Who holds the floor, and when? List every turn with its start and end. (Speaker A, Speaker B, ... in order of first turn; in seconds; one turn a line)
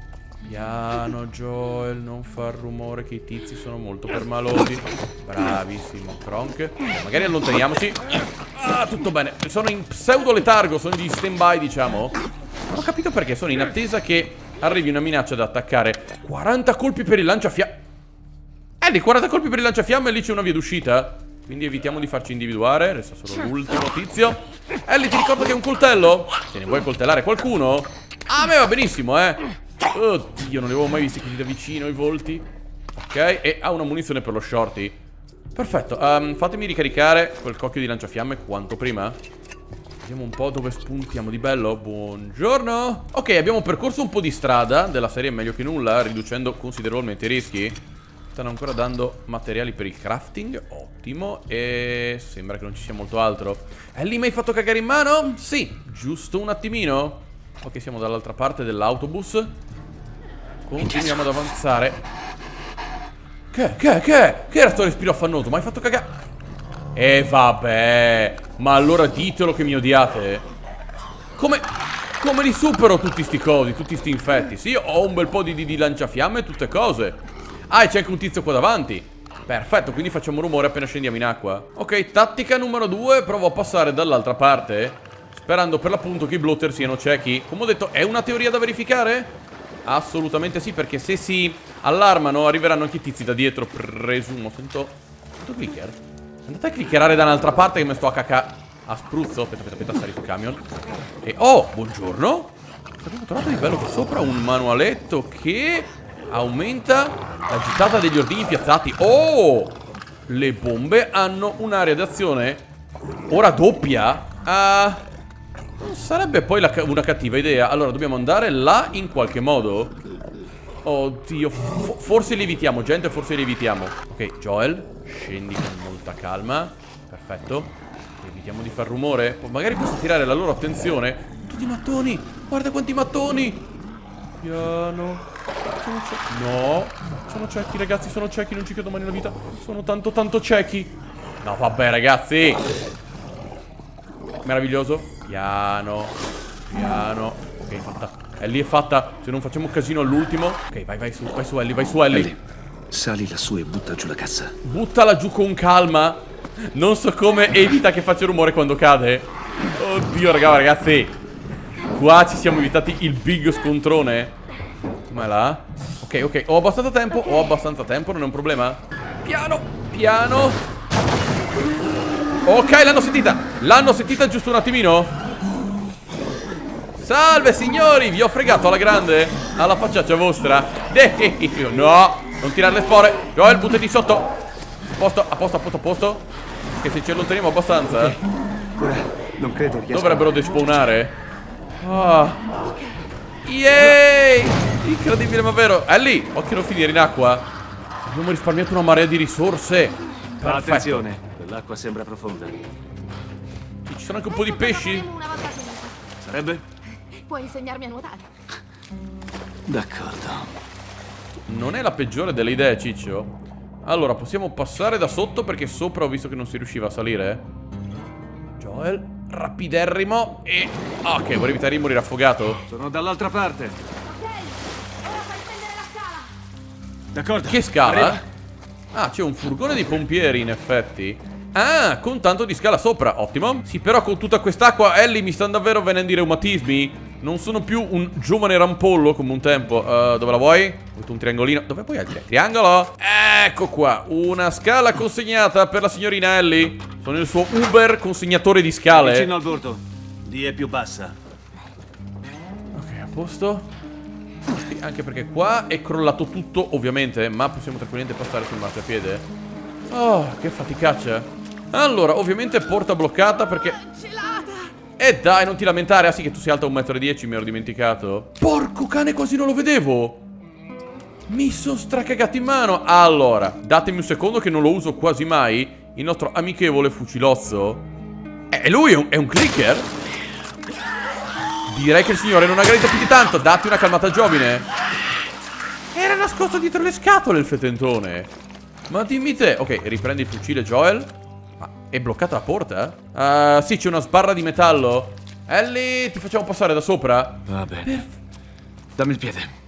Speaker A: 0.5-12.2
Speaker A: 12.7-17.8
Speaker A: 18.8-32.4
Speaker A: 33.0-35.0
Speaker A: 35.5-39.2
Speaker A: 40.0-47.8
Speaker A: 48.3-59.5
Speaker A: 60.6-62.0
Speaker B: 60.8-61.4
Speaker A: 63.5-66.1
Speaker A: 66.9-70.4
Speaker A: 71.4-71.7
Speaker A: 72.2-89.3
Speaker A: 89.8-100.6
Speaker A: 101.2-112.6
Speaker A: 113.3-115.0
Speaker A: 115.8-120.0
Speaker A: 120.8-133.6
Speaker A: 134.4-140.9
Speaker A: 141.4-142.6
Speaker A: 144.4-146.2
Speaker A: 146.7-152.3
Speaker B: 152.1-154.6
Speaker A: 154.6-161.2
Speaker A: 161.9-164.3
Speaker A: 165.1-170.6
Speaker A: 172.4-175.2
Speaker A: 177.0-184.3
Speaker A: 184.9-186.2
Speaker A: 186.8-188.2
Speaker B: 187.9-188.2
Speaker B: 188.7-190.4
Speaker A: 189.9-191.2
Speaker A: 191.8-192.4
Speaker A: 193.4-197.5
Speaker A: 198.1-201.1
Speaker B: 200.4-202.6
Speaker A: 203.8-205.1
Speaker C: 204.3-205.9
Speaker B: 206.2-206.6
Speaker C: 207.1-208.3
Speaker B: 209.7-210.5
Speaker A: 211.5-217.4
Speaker A: 218.6-222.6
Speaker B: 222.7-223.8
Speaker C: 224.1-226.3
Speaker B: 227.1-228.2
Speaker A: 227.5-228.2
Speaker A: 228.9-249.3
Speaker B: 248.9-251.2
Speaker A: 252.7-253.7
Speaker A: 254.5-259.2
Speaker A: 259.9-263.8
Speaker C: 263.8-264.7
Speaker A: 265.0-270.2
Speaker A: 271.3-277.9
Speaker A: 278.5-279.9
Speaker A: 281.7-284.6
Speaker A: 285.9-288.3
Speaker A: 288.9-298.1
Speaker B: 297.5-297.9
Speaker B: 298.9-299.5